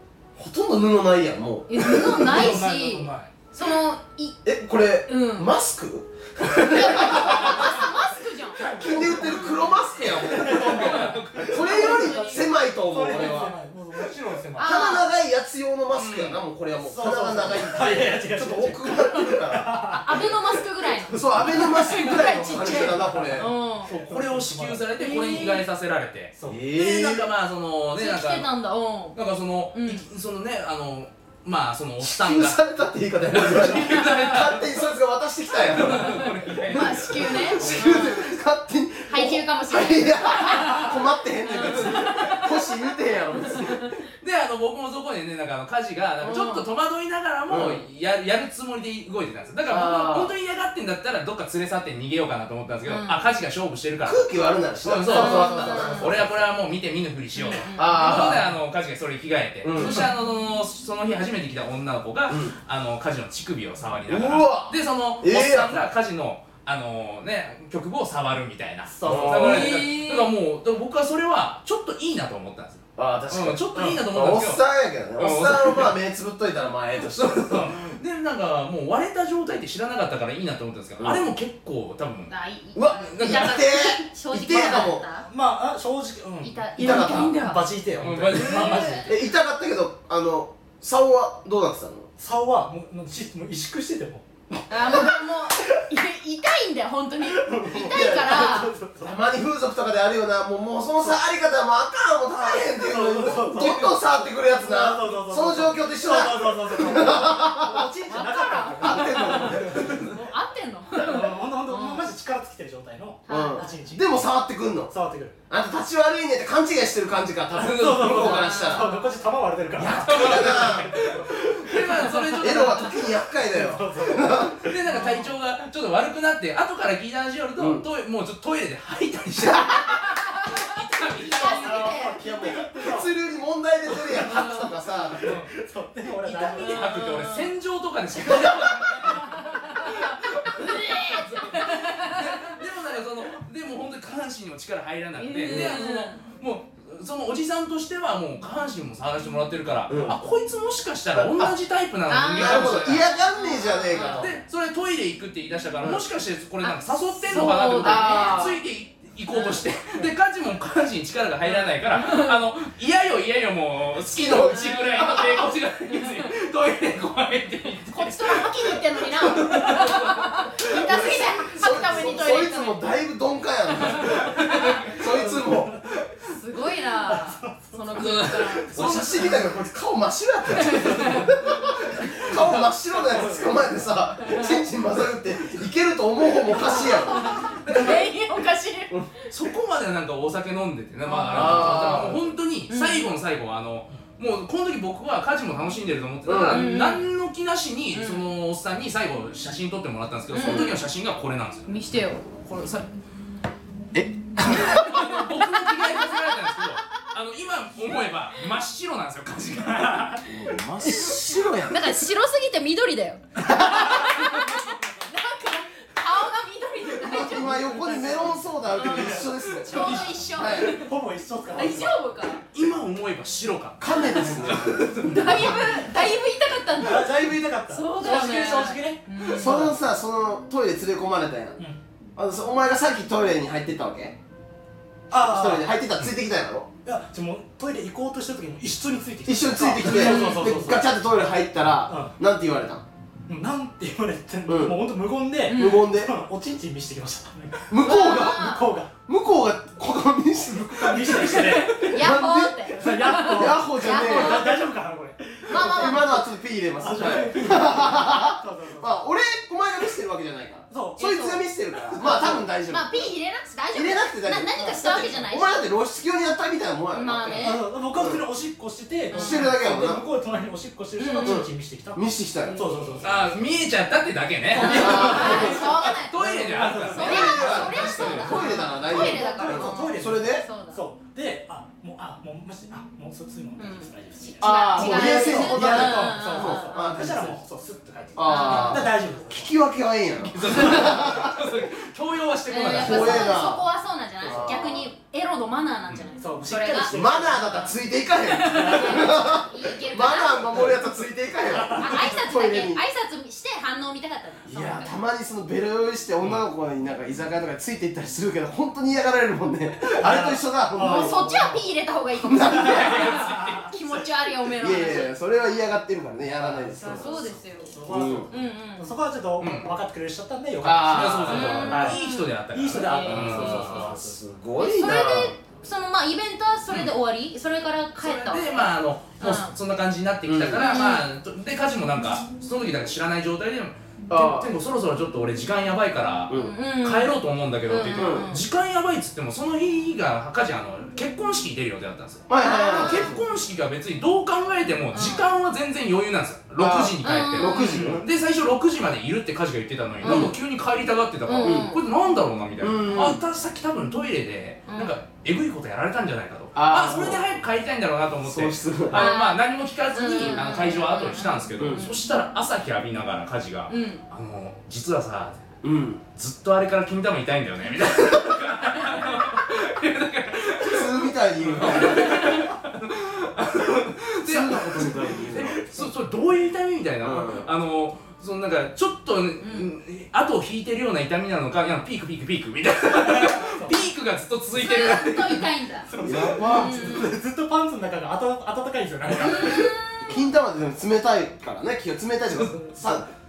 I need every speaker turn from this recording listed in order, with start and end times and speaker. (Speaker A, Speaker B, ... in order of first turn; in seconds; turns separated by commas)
Speaker A: 0.4-2.6, Speaker B: 1.7-4.4, Speaker C: 2.2-3.3, Speaker A: 4.5-7.9, Speaker B: 5.1-5.5, Speaker B: 6.5-9.5, Speaker D: 7.3-7.7, Speaker A: 8.5-13.5, Speaker C: 10.3-14.8, Speaker B: 10.5-12.5, Speaker D: 10.5-11.9, Speaker B: 13.1-13.4, Speaker B: 14.6-15.1, Speaker A: 14.6-20.4, Speaker D: 15.9-16.4, Speaker C: 16.8-24.9, Speaker B: 19.9-23.9, Speaker A: 21.1-23.5, Speaker D: 24.0-28.5, Speaker B: 25.0-25.6, Speaker C: 26.4-26.6, Speaker A: 26.5-27.3, Speaker B: 26.8-27.1, Speaker B: 28.0-29.2, Speaker D: 29.1-32.6, Speaker B: 29.7-30.0, Speaker A: 32.0-44.0, Speaker D: 33.3-34.8, Speaker D: 35.6-38.1, Speaker B: 36.6-38.2, Speaker B: 39.1-42.7, Speaker D: 41.6-41.9, Speaker B: 43.4-43.9, Speaker D: 44.2-54.3, Speaker B: 46.2-46.6, Speaker A: 47.5-47.8, Speaker A: 49.7-50.3, Speaker B: 52.9-53.2, Speaker A: 54.0-56.4, Speaker D: 54.8-74.6, Speaker B: 55.1-56.2, Speaker B: 57.4-58.1, Speaker A: 57.8-58.5, Speaker A: 59.6-60.1, Speaker B: 59.8-60.1, Speaker A: 62.3-62.5, Speaker A: 64.1-65.9, Speaker C: 68.9-69.6, Speaker A: 69.0-69.9, Speaker B: 69.3-70.3, Speaker A: 73.0-77.7, Speaker D: 75.2-76.0, Speaker D: 77.1-82.3, Speaker C: 77.5-77.8, Speaker A: 81.0-81.2, Speaker B: 82.3-85.3, Speaker A: 82.7-85.0, Speaker D: 82.9-83.8, Speaker C: 85.3-89.1, Speaker B: 86.4-87.6, Speaker A: 86.8-87.4, Speaker D: 88.0-89.0, Speaker B: 88.3-89.2, Speaker A: 89.0-92.1, Speaker C: 92.2-95.2, Speaker B: 94.7-98.7, Speaker C: 97.2-99.2, Speaker A: 97.7-107.8, Speaker C: 102.8-110.0, Speaker B: 107.9-112.0, Speaker A: 108.8-110.1, Speaker C: 111.0-114.1, Speaker B: 113.3-113.8, Speaker A: 113.3-114.9, Speaker C: 114.9-115.4, Speaker A: 115.5-118.9, Speaker D: 117.5-118.3, Speaker C: 117.6-122.1, Speaker B: 118.2-119.1, Speaker A: 119.8-121.1, Speaker D: 120.1-123.0, Speaker B: 122.1-122.6, Speaker A: 122.4-124.6, Speaker C: 123.2-125.3, Speaker D: 124.7-132.1, Speaker B: 124.9-125.2, Speaker A: 127.6-127.8, Speaker A: 129.4-129.7, Speaker B: 129.7-132.2, Speaker A: 131.4-135.3, Speaker C: 131.6-133.1, Speaker B: 134.1-134.7, Speaker C: 135.2-137.1, Speaker D: 135.2-135.5, Speaker B: 136.3-137.6, Speaker D: 136.3-153.1, Speaker B: 138.2-142.6, Speaker A: 138.3-138.7, Speaker B: 145.2-146.2, Speaker A: 145.4-145.9, Speaker A: 149.9-150.2, Speaker A: 151.2-151.6, Speaker B: 152.1-154.3, Speaker A: 152.3-154.4, Speaker D: 153.9-170.3, Speaker B: 156.6-158.6, Speaker A: 157.4-158.6, Speaker B: 159.3-159.6, Speaker B: 161.5-162.4, Speaker B: 164.1-166.3, Speaker A: 164.2-165.1, Speaker B: 167.9-172.9, Speaker A: 170.6-175.7, Speaker D: 171.7-172.1, Speaker B: 173.8-174.9, Speaker D: 173.9-174.9, Speaker C: 174.9-175.8, Speaker B: 176.2-179.4, Speaker C: 177.0-177.9, Speaker D: 177.9-179.4, Speaker A: 178.7-187.9, Speaker B: 180.5-181.9, Speaker C: 182.0-182.3, Speaker C: 183.0-183.6, Speaker B: 184.2-184.6, Speaker B: 186.4-189.2, Speaker D: 187.7-188.0, Speaker D: 189.3-201.8, Speaker B: 191.1-192.1, Speaker A: 191.3-192.3, Speaker B: 192.7-193.1, Speaker A: 196.3-196.8, Speaker B: 196.4-197.1, Speaker B: 197.9-198.2, Speaker B: 200.3-200.8, Speaker A: 200.4-200.8, Speaker B: 201.7-202.2, Speaker D: 202.4-202.9, Speaker A: 203.9-205.0, Speaker D: 204.4-211.2, Speaker B: 204.7-206.7, Speaker C: 209.9-210.2, Speaker A: 210.2-212.1, Speaker B: 211.7-220.9, Speaker C: 213.5-214.0, Speaker A: 216.9-220.8, Speaker C: 218.8-219.2, Speaker C: 219.8-222.0, Speaker B: 221.5-222.4, Speaker D: 222.5-225.6, Speaker A: 223.8-225.0, Speaker C: 225.0-226.0, Speaker B: 225.0-229.6, Speaker C: 226.8-229.8, Speaker A: 229.3-231.6, Speaker A: 232.2-234.2, Speaker C: 235.1-235.8, Speaker A: 235.1-236.7, Speaker C: 236.8-240.9, Speaker A: 239.3-242.8, Speaker B: 239.8-240.6, Speaker C: 241.9-242.1, Speaker C: 243.3-248.9, Speaker A: 244.5-244.8, Speaker B: 245.5-245.9, Speaker A: 245.5-246.1, Speaker A: 247.7-254.6, Speaker B: 247.8-248.6, Speaker C: 250.8-251.9, Speaker B: 251.3-254.6, Speaker C: 252.8-256.1, Speaker B: 255.5-256.2, Speaker A: 255.5-262.9, Speaker C: 256.8-259.0, Speaker C: 260.7-261.3, Speaker B: 261.0-261.4, Speaker C: 261.9-262.4, Speaker B: 262.1-265.6, Speaker A: 263.7-268.2, Speaker B: 266.9-267.6, Speaker C: 267.4-273.4, Speaker B: 269.1-269.5, Speaker A: 269.1-270.0, Speaker B: 271.0-271.4, Speaker A: 271.2-273.0, Speaker B: 272.5-273.0, Speaker D: 273.0-278.5, Speaker C: 274.5-275.7, Speaker B: 274.6-276.2, Speaker A: 274.6-280.5, Speaker C: 276.2-289.6, Speaker B: 276.9-280.8, Speaker B: 283.6-287.0, Speaker A: 284.4-287.4, Speaker A: 288.1-291.4, Speaker B: 288.2-288.9, Speaker D: 290.3-293.5, Speaker B: 292.5-296.9, Speaker A: 292.7-293.6, Speaker A: 294.2-294.9, Speaker C: 294.2-294.5, Speaker C: 296.2-297.7, Speaker A: 296.9-302.8, Speaker B: 298.2-300.8, Speaker C: 298.5-299.2, Speaker C: 301.5-301.9, Speaker B: 301.8-305.0, Speaker A: 304.5-311.6, Speaker C: 310.0-311.3, Speaker B: 310.8-315.6, Speaker A: 312.2-313.2, Speaker C: 312.4-313.7, Speaker A: 314.6-317.3, Speaker C: 316.2-324.1, Speaker B: 316.8-317.8, Speaker A: 317.9-318.3, Speaker B: 318.3-318.9, Speaker D: 319.4-319.7, Speaker A: 320.6-322.0, Speaker D: 320.9-324.0, Speaker B: 321.3-323.9, Speaker A: 323.1-325.4, Speaker B: 324.6-329.5, Speaker D: 326.7-326.9, Speaker D: 328.0-365.6, Speaker A: 330.2-330.8, Speaker B: 330.6-331.1, Speaker A: 334.1-334.5, Speaker A: 336.3-336.6, Speaker B: 336.3-338.4, Speaker A: 337.8-338.3, Speaker A: 342.3-343.2, Speaker B: 342.4-343.2, Speaker B: 344.9-345.3, Speaker A: 346.6-348.0, Speaker B: 347.0-348.0, Speaker B: 350.0-350.4, Speaker A: 350.0-350.4, Speaker B: 351.2-351.8, Speaker A: 351.4-351.8, Speaker A: 352.6-353.2, Speaker B: 354.7-355.0, Speaker A: 356.6-357.2, Speaker A: 358.2-359.1, Speaker B: 358.9-362.0, Speaker A: 361.6-361.9, Speaker B: 363.7-364.0, Speaker A: 365.6-366.0, Speaker D: 366.1-386.4, Speaker A: 370.6-372.4, Speaker A: 374.2-375.6, Speaker A: 377.0-377.5, Speaker B: 379.4-379.7, Speaker C: 383.1-383.8, Speaker B: 384.6-385.9, Speaker C: 385.9-389.7, Speaker A: 386.0-387.1, Speaker B: 386.5-387.1, Speaker B: 389.2-390.1, Speaker A: 390.0-393.1